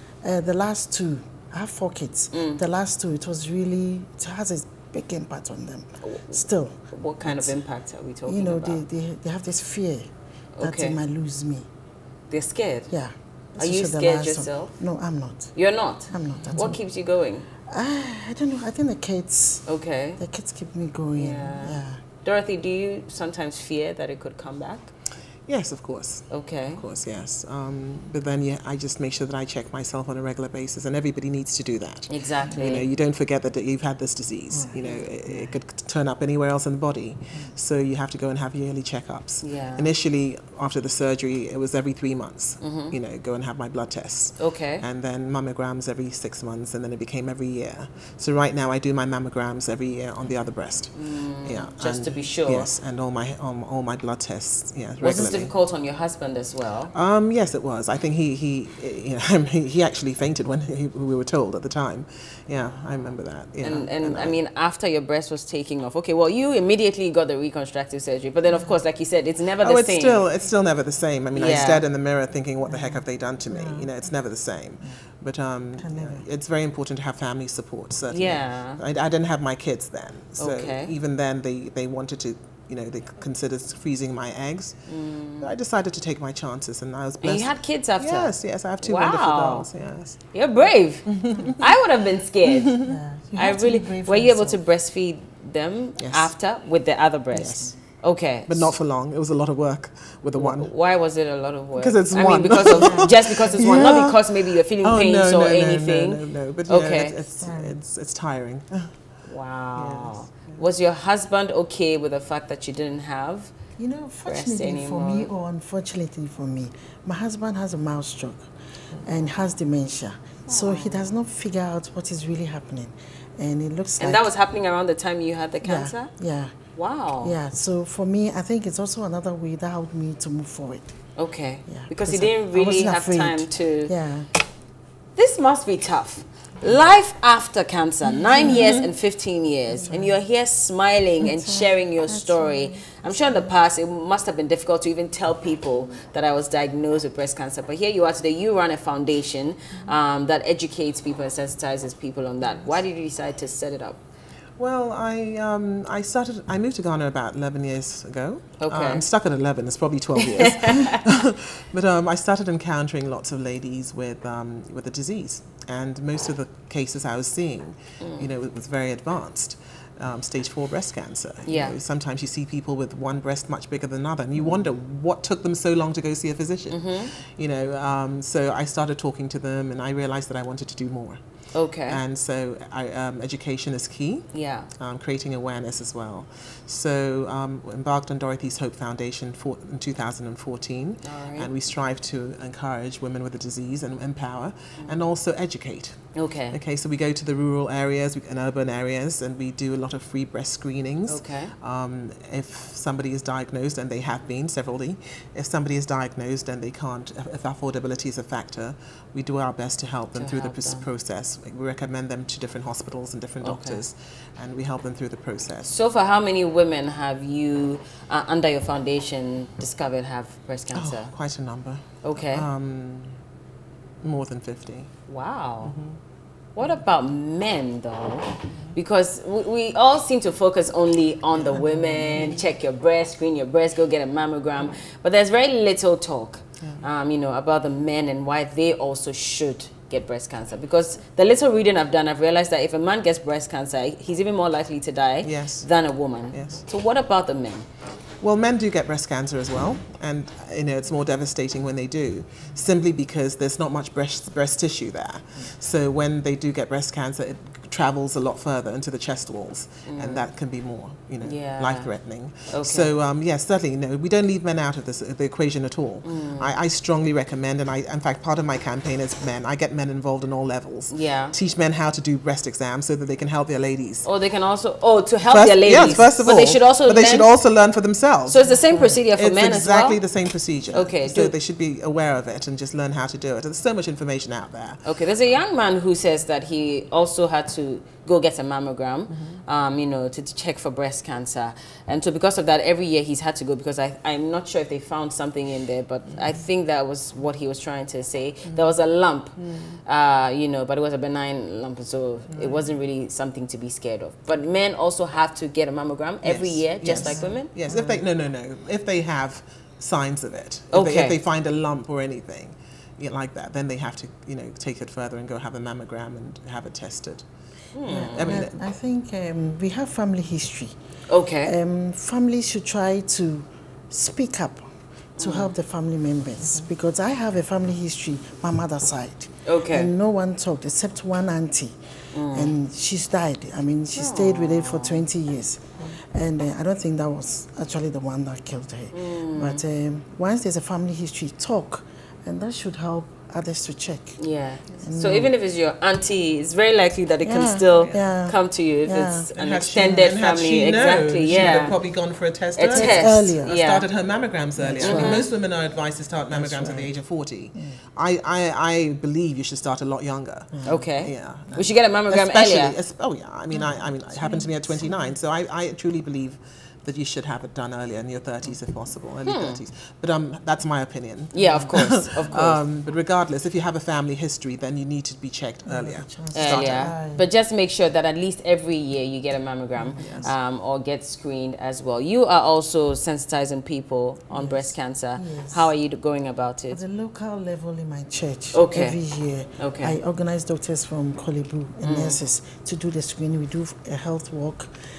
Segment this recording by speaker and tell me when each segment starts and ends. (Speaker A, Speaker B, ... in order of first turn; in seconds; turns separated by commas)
Speaker A: 0.2-7.5, Speaker B: 2.3-2.6, Speaker B: 6.0-8.8, Speaker A: 8.3-10.1, Speaker B: 10.6-11.0, Speaker A: 10.6-11.7, Speaker B: 12.3-12.9, Speaker A: 12.9-15.5, Speaker B: 13.6-14.8, Speaker B: 15.5-17.5, Speaker A: 16.1-16.8, Speaker C: 16.4-16.7, Speaker A: 17.7-19.6, Speaker B: 19.7-20.2, Speaker A: 20.2-22.0, Speaker B: 21.1-24.9, Speaker C: 25.5-55.5, Speaker B: 26.3-26.8, Speaker B: 32.1-32.9, Speaker A: 34.5-35.5, Speaker B: 39.4-39.9, Speaker B: 42.6-43.0, Speaker B: 44.4-44.8, Speaker B: 50.9-52.7, Speaker B: 55.0-56.9, Speaker C: 56.9-64.4, Speaker B: 63.6-70.2, Speaker C: 69.6-84.8, Speaker B: 71.3-71.8, Speaker A: 72.7-73.9, Speaker A: 75.8-76.2, Speaker B: 78.1-78.8, Speaker B: 80.4-80.9, Speaker B: 84.9-85.5, Speaker C: 85.4-90.2, Speaker B: 87.2-89.7, Speaker B: 90.3-92.8, Speaker C: 91.0-91.7, Speaker C: 92.4-93.0, Speaker A: 92.8-94.6, Speaker B: 93.3-98.7, Speaker C: 96.0-96.3, Speaker C: 97.3-97.7, Speaker C: 98.5-100.7, Speaker B: 100.3-107.2, Speaker C: 101.7-104.3, Speaker A: 102.8-104.0, Speaker C: 104.8-108.9, Speaker A: 107.4-107.8, Speaker B: 109.2-113.5, Speaker C: 109.7-110.6, Speaker A: 113.8-118.5, Speaker B: 114.2-115.3, Speaker C: 118.9-119.3, Speaker A: 119.0-124.3, Speaker B: 120.5-121.1, Speaker B: 124.0-126.1, Speaker A: 125.6-126.5, Speaker B: 126.7-127.3, Speaker A: 127.2-130.9, Speaker B: 131.2-133.9, Speaker A: 131.7-134.3, Speaker B: 135.2-154.0, Speaker A: 139.7-140.2, Speaker A: 141.2-143.5, Speaker C: 154.6-181.2, Speaker B: 158.6-159.0, Speaker B: 160.2-161.0, Speaker B: 168.0-168.3, Speaker B: 171.4-171.8, Speaker B: 176.7-177.1, Speaker B: 181.5-182.0, Speaker C: 181.9-196.0, Speaker B: 184.3-184.7, Speaker B: 191.0-191.5, Speaker B: 196.1-196.6, Speaker C: 196.5-215.7, Speaker B: 201.1-201.5, Speaker B: 210.1-210.8, Speaker B: 213.4-213.8, Speaker B: 215.7-221.1, Speaker C: 220.7-223.2, Speaker B: 222.0-222.5, Speaker C: 224.0-224.9, Speaker B: 225.1-225.7, Speaker C: 225.6-226.0, Speaker B: 226.6-247.7, Speaker C: 231.5-232.4, Speaker C: 245.2-245.7, Speaker C: 246.3-246.6, Speaker C: 248.2-274.1, Speaker B: 259.9-260.3, Speaker B: 261.2-261.9, Speaker B: 262.5-262.9, Speaker B: 266.0-266.5, Speaker B: 270.9-271.4, Speaker B: 274.0-277.3, Speaker C: 275.3-278.5, Speaker B: 278.3-280.0, Speaker A: 278.5-279.0, Speaker C: 279.1-284.8, Speaker B: 280.7-281.3, Speaker B: 284.8-307.6, Speaker C: 298.4-298.7, Speaker C: 299.4-299.8, Speaker C: 302.3-302.7, Speaker C: 306.2-317.2, Speaker A: 306.9-308.0, Speaker B: 310.7-311.2, Speaker B: 317.7-318.4, Speaker A: 317.9-320.7, Speaker C: 318.0-318.6, Speaker B: 321.1-321.5, Speaker A: 321.4-324.6, Speaker A: 325.2-331.8, Speaker B: 325.2-325.5, Speaker C: 326.4-326.7, Speaker B: 329.4-329.9, Speaker B: 332.1-332.5, Speaker A: 332.3-344.2, Speaker B: 333.9-335.0, Speaker B: 338.9-339.6, Speaker B: 344.2-351.8, Speaker A: 344.8-345.3, Speaker A: 347.2-349.3, Speaker C: 347.7-348.1, Speaker C: 349.3-376.9, Speaker B: 352.6-353.9, Speaker A: 352.7-353.6, Speaker A: 354.6-355.3, Speaker B: 354.8-355.3, Speaker A: 356.3-356.9, Speaker A: 357.5-357.8, Speaker A: 360.5-360.9, Speaker B: 360.6-362.8, Speaker A: 363.5-365.1, Speaker B: 369.2-369.6, Speaker B: 371.3-372.6, Speaker A: 371.4-372.1, Speaker A: 375.6-377.2, Speaker B: 376.3-386.8, Speaker C: 380.0-380.3, Speaker A: 380.0-380.3, Speaker A: 384.3-385.7, Speaker A: 386.7-394.7, Speaker B: 388.5-389.0, Speaker B: 389.6-390.0, Speaker B: 391.8-392.2